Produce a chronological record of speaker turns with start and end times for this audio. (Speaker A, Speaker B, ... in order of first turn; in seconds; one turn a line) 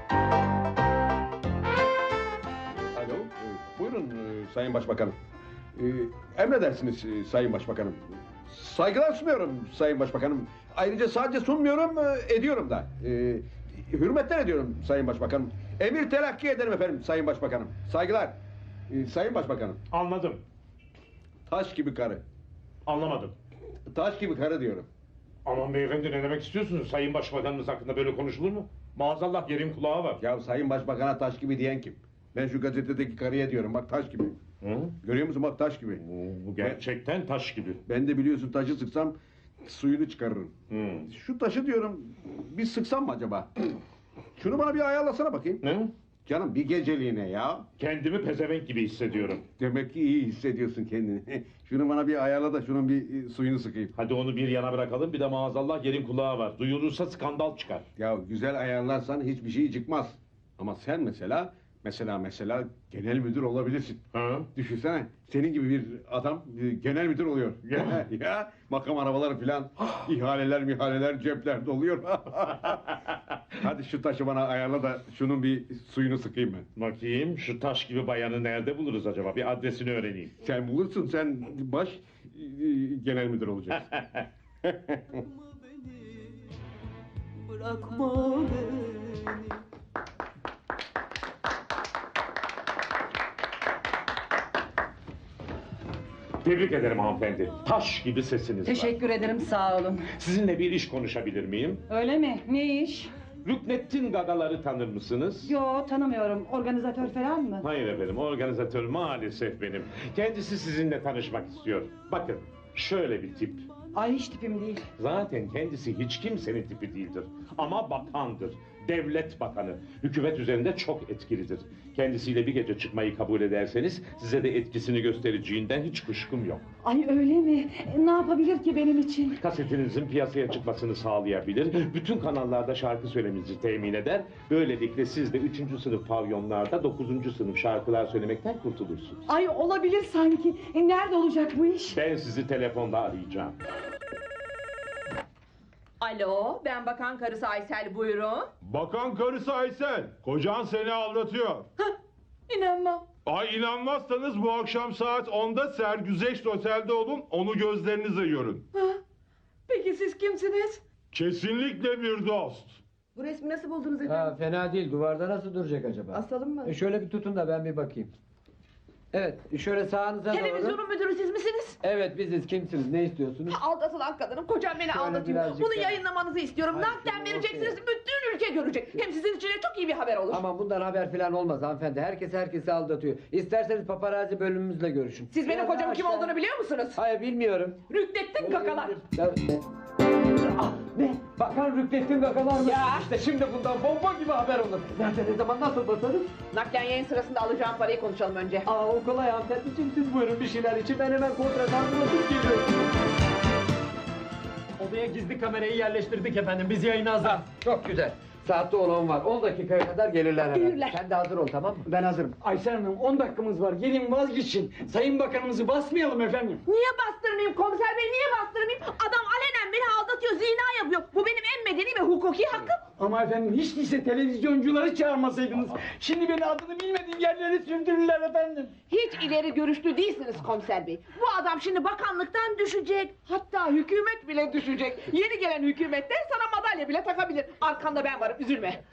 Speaker A: 2.9-5.1
Speaker A: 5.8-18.4
Speaker A: 18.9-19.8
Speaker B: 19.9-20.4
Speaker A: 21.5-22.2
Speaker B: 22.9-23.3
Speaker A: 23.9-24.9
Speaker B: 25.4-30.2
Speaker A: 30.2-34.4
Speaker B: 34.6-34.9
Speaker A: 35.0-36.0
Speaker B: 36.0-37.8
Speaker A: 37.9-40.5
Speaker B: 40.7-41.1
Speaker A: 41.1-43.5
Speaker A: 44.4-45.6
Speaker B: 45.6-45.9
Speaker A: 46.2-47.6
Speaker B: 47.8-49.4
Speaker A: 49.6-53.9
Speaker B: 54.0-57.9
Speaker A: 58.0-64.0
Speaker B: 64.1-64.5
Speaker A: 64.5-72.8
Speaker B: 67.7-68.0
Speaker A: 73.6-76.7
Speaker B: 76.8-80.3
Speaker A: 80.4-83.9
Speaker B: 83.9-84.2
Speaker A: 84.7-85.2
Speaker B: 96.4-99.0
Speaker C: 98.6-100.1
Speaker B: 100.2-101.8
Speaker C: 101.9-103.1
Speaker B: 103.4-105.5
Speaker C: 105.4-107.6
Speaker B: 107.6-113.7
Speaker C: 113.9-114.8
Speaker B: 115.0-126.6
Speaker C: 126.8-129.4
Speaker B: 129.3-139.2
Speaker C: 139.3-142.0
Speaker B: 141.9-143.6
Speaker D: 146.0-148.5
Speaker E: 148.6-151.7
Speaker D: 152.5-153.0
Speaker E: 153.2-158.6
Speaker C: 159.7-160.8
Speaker E: 161.1-162.8
Speaker D: 163.2-164.0
Speaker F: 164.0-168.1
Speaker F: 169.1-170.8
Speaker D: 170.3-171.8
Speaker F: 171.8-173.6
Speaker D: 173.4-180.4
Speaker F: 174.9-176.0
Speaker F: 176.7-177.7
Speaker F: 180.3-186.3
Speaker D: 185.3-187.0
Speaker F: 186.9-187.8
Speaker D: 187.9-189.0
Speaker F: 188.4-189.5
Speaker F: 190.5-196.3
Speaker D: 192.6-193.1
Speaker D: 196.5-198.7
Speaker F: 198.7-202.7
Speaker G: 204.8-207.5
Speaker F: 207.4-211.9
Speaker D: 210.5-211.0
Speaker G: 211.8-216.6
Speaker D: 216.7-222.8
Speaker G: 223.0-228.7
Speaker D: 228.9-238.8